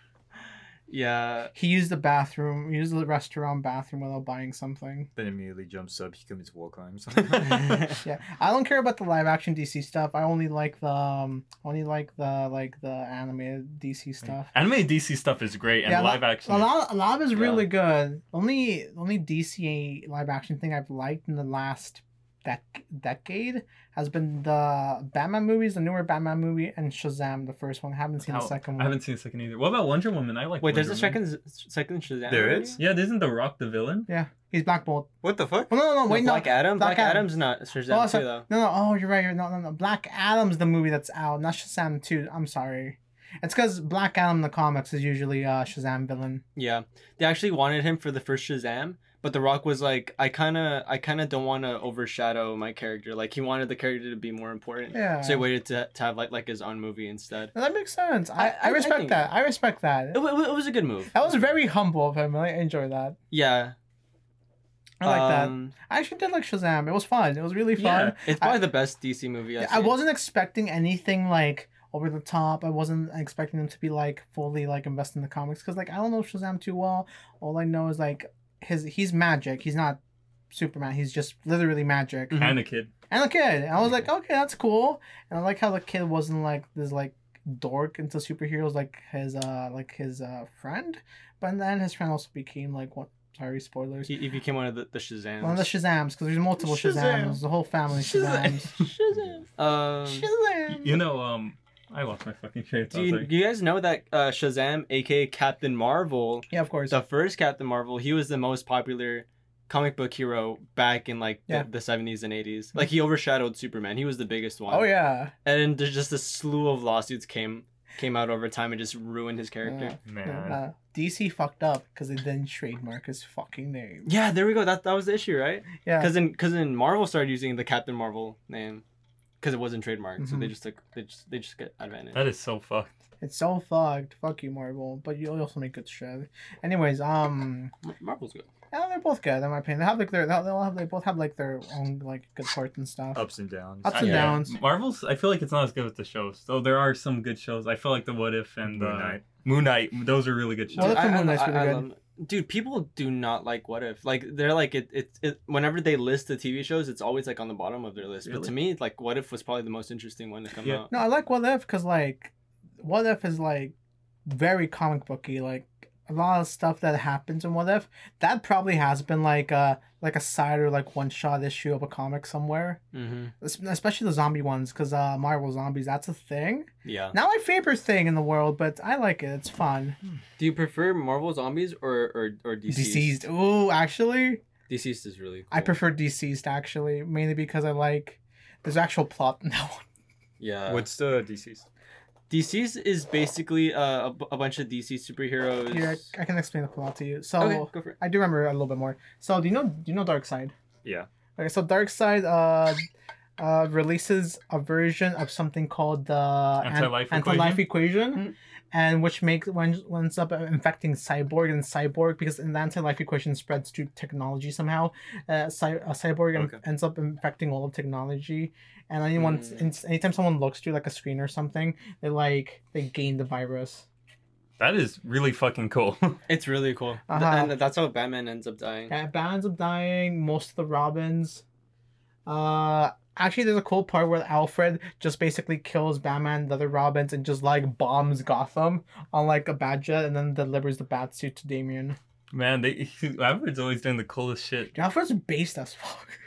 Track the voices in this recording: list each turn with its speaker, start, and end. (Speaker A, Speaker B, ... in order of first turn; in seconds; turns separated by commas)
Speaker A: 0.9-1.5, Speaker B: 1.5-5.1, Speaker C: 5.2-7.9, Speaker B: 8.0-14.5, Speaker D: 14.5-16.7, Speaker B: 15.8-28.9, Speaker D: 28.2-31.2, Speaker A: 30.6-32.8, Speaker C: 32.3-32.8, Speaker D: 32.8-34.1, Speaker B: 34.1-35.1, Speaker C: 35.2-35.7, Speaker B: 35.7-37.3, Speaker A: 36.1-38.5, Speaker B: 37.9-46.4, Speaker A: 46.5-57.5, Speaker B: 54.9-55.5, Speaker B: 57.5-60.2, Speaker A: 58.4-59.3, Speaker A: 60.1-61.5, Speaker B: 61.1-63.2, Speaker A: 63.3-63.7, Speaker B: 65.0-68.7, Speaker A: 65.0-65.7, Speaker D: 67.8-68.2, Speaker A: 68.0-70.0, Speaker B: 69.6-80.0, Speaker B: 80.5-82.5, Speaker A: 82.3-82.6, Speaker D: 82.3-82.9, Speaker B: 83.1-94.1, Speaker A: 94.0-95.7, Speaker B: 95.4-98.8, Speaker A: 96.8-97.3, Speaker A: 98.2-99.0, Speaker C: 99.1-99.5, Speaker A: 99.5-100.3, Speaker B: 100.0-101.0, Speaker D: 100.7-103.3, Speaker A: 102.9-119.9, Speaker B: 106.5-106.9, Speaker B: 114.7-115.3, Speaker B: 119.7-124.1, Speaker D: 120.0-120.6, Speaker A: 124.0-128.8, Speaker B: 125.8-126.1, Speaker A: 129.4-132.2, Speaker B: 130.2-130.5, Speaker D: 132.1-132.9, Speaker B: 133.2-137.7, Speaker A: 137.8-138.5, Speaker B: 138.7-143.2, Speaker C: 143.1-144.4, Speaker B: 143.8-144.5, Speaker D: 143.9-151.1, Speaker C: 148.6-149.2, Speaker B: 150.7-151.8, Speaker A: 150.8-160.9, Speaker D: 158.2-158.5, Speaker B: 160.9-163.7, Speaker B: 164.2-172.8, Speaker A: 172.9-173.3, Speaker B: 173.4-180.0, Speaker A: 176.8-177.2, Speaker A: 180.4-183.2, Speaker B: 182.7-184.4, Speaker A: 184.7-185.8, Speaker B: 185.5-189.8, Speaker A: 190.4-190.9, Speaker C: 190.7-191.6, Speaker A: 192.3-196.1, Speaker B: 195.7-200.5, Speaker A: 197.4-197.9, Speaker B: 201.4-202.8, Speaker B: 203.4-223.8, Speaker D: 206.6-207.7, Speaker A: 219.2-219.6, Speaker D: 224.6-226.2, Speaker A: 226.3-228.9, Speaker B: 227.1-227.5, Speaker B: 228.9-231.4, Speaker B: 232.2-242.0, Speaker D: 242.3-244.7, Speaker B: 244.7-246.2